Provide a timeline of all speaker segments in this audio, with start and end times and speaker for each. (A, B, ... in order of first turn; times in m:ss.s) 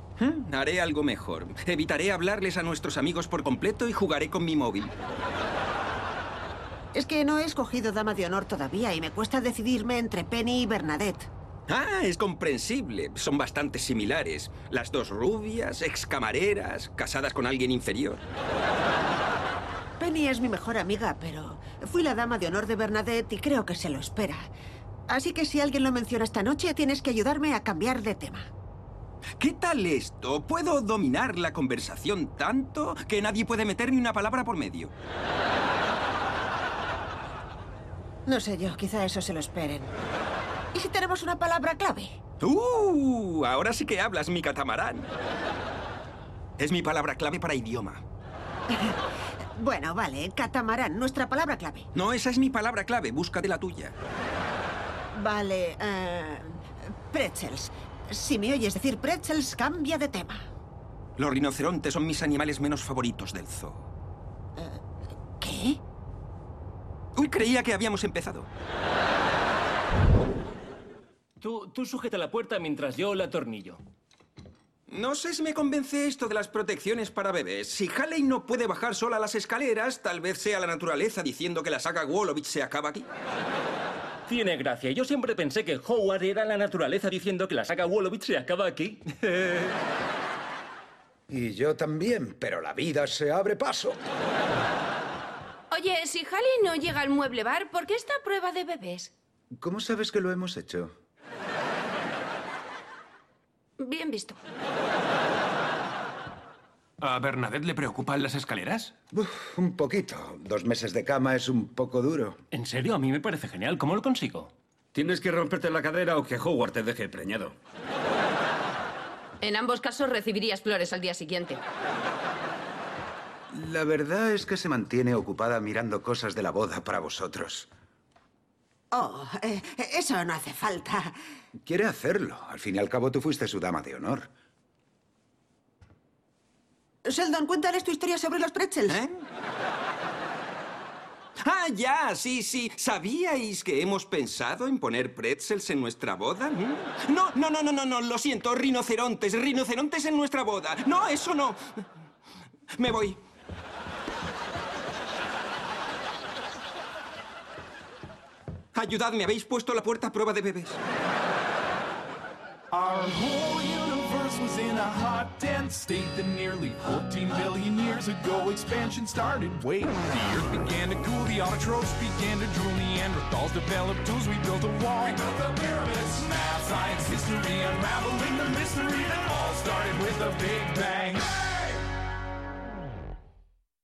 0:00.2-0:04.9 A
0:06.9-0:11.3 B
0:11.7-0:18.2 A
0:20.0-0:24.5 B
0:25.1-0:28.4 B
0:29.4-0:34.9 A
0:38.3-0:39.9 B
0:40.7-0:42.1 B
0:42.4-0:45.1 A
0:46.6-0:48.0 A
0:48.7-0:49.0 B
0:49.6-0:51.9 B
0:51.9-0:53.9 A
0:55.1-1:00.4 B
1:01.2-1:03.9 A
1:04.6-1:04.8 B
1:05.4-1:05.8 B
1:07.2-1:08.5 A
1:11.4-1:13.8 C
1:11.9-1:12.2 D
1:14.9-1:23.1 A
1:24.3-1:29.6 C
1:31.3-1:34.0 E
1:35.7-1:39.1 F
1:39.6-1:40.9 E
1:43.8-1:44.4 F
1:47.0-1:48.9 D
1:49.1-1:52.4 E
1:52.6-1:54.5 C
1:53.5-1:54.3 D
1:54.9-1:57.6 G
1:59.4-2:01.6 F
2:03.5-2:07.7 E
2:08.9-2:11.2 B
2:11.6-2:14.3 E
2:17.0-2:19.0 B
2:18.9-2:19.2 A
2:21.4-2:31.6 A
2:32.8-2:33.2 A
2:38.7-2:40.8 A
2:42.7-3:01.8 H